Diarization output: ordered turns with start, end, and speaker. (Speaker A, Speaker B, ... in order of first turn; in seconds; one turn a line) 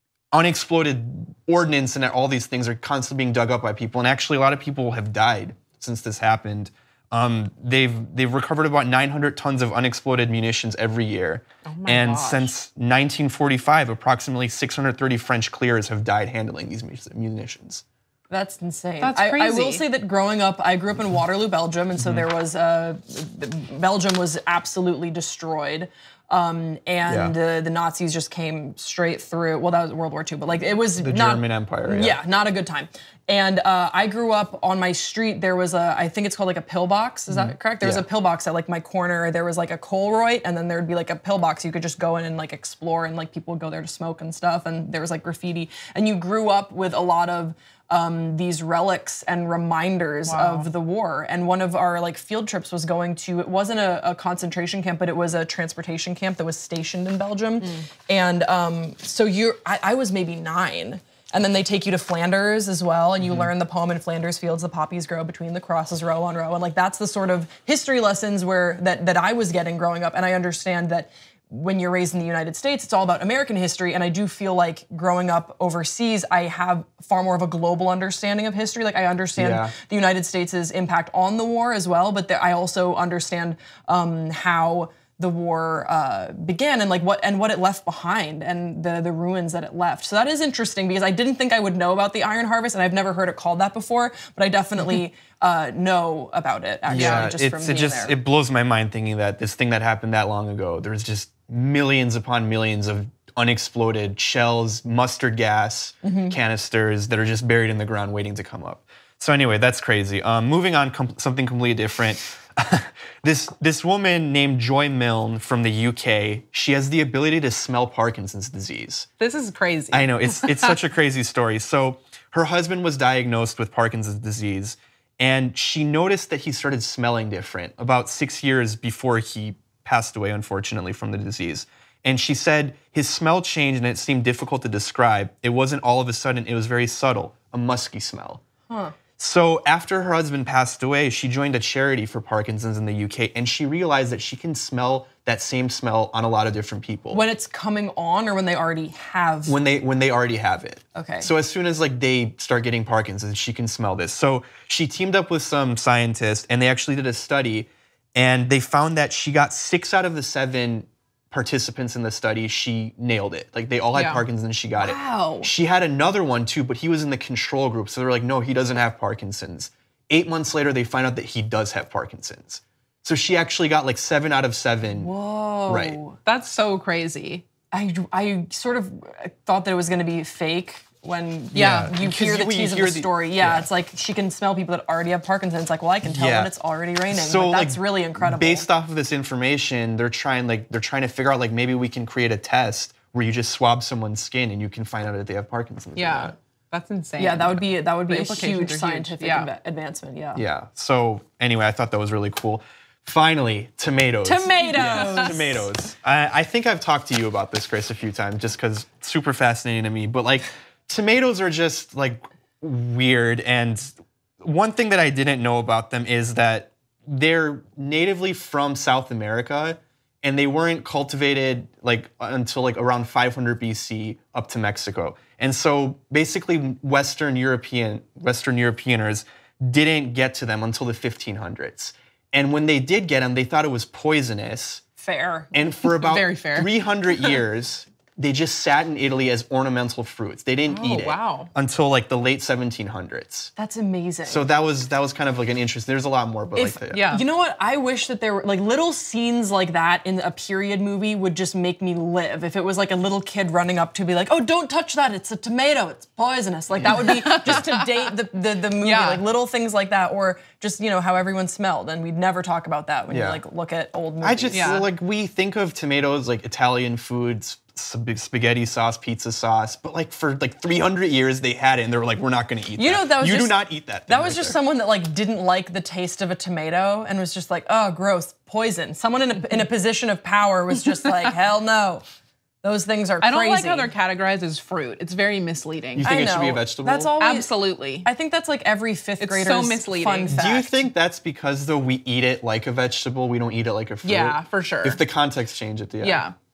Speaker A: 0.3-17.8
Speaker B: 11.7-12.5
Speaker C: 18.3-98.2
Speaker B: 19.0-19.8
Speaker A: 22.0-22.2
Speaker A: 27.1-27.3
Speaker A: 31.0-32.2
Speaker A: 37.3-38.0
Speaker B: 50.2-50.7
Speaker A: 63.2-63.5
Speaker A: 79.4-79.7
Speaker B: 96.9-97.3
Speaker A: 96.9-119.1
Speaker C: 106.0-106.4
Speaker B: 119.2-120.8
Speaker A: 119.9-138.4
Speaker C: 138.7-138.9
Speaker A: 139.2-147.2
Speaker C: 147.1-149.5
Speaker A: 149.4-175.1
Speaker C: 150.9-151.3
Speaker B: 163.9-164.2
Speaker C: 164.8-165.5
Speaker C: 174.9-176.2
Speaker A: 175.7-176.0
Speaker B: 176.2-177.4
Speaker C: 177.7-188.7
Speaker A: 181.5-183.7
Speaker B: 181.5-181.9
Speaker A: 186.0-186.5
Speaker A: 187.1-196.3
Speaker B: 195.9-199.5
Speaker C: 197.2-200.4
Speaker A: 200.3-234.8
Speaker C: 204.2-205.7
Speaker B: 204.7-205.4
Speaker C: 235.0-235.5
Speaker A: 235.5-243.5
Speaker B: 235.8-236.7
Speaker B: 240.7-241.5
Speaker C: 243.6-244.5
Speaker A: 244.2-247.1
Speaker C: 246.5-264.8
Speaker B: 246.9-247.2
Speaker B: 256.9-258.1
Speaker B: 258.8-259.2
Speaker A: 263.1-263.4
Speaker A: 264.2-274.6
Speaker B: 264.5-264.9
Speaker C: 272.8-282.0
Speaker C: 282.6-283.9
Speaker B: 283.2-286.1
Speaker A: 286.0-287.1
Speaker C: 286.0-287.5
Speaker B: 287.2-288.1
Speaker C: 288.0-290.9
Speaker B: 289.2-290.4
Speaker A: 290.3-296.2
Speaker B: 294.0-295.0
Speaker B: 296.0-296.4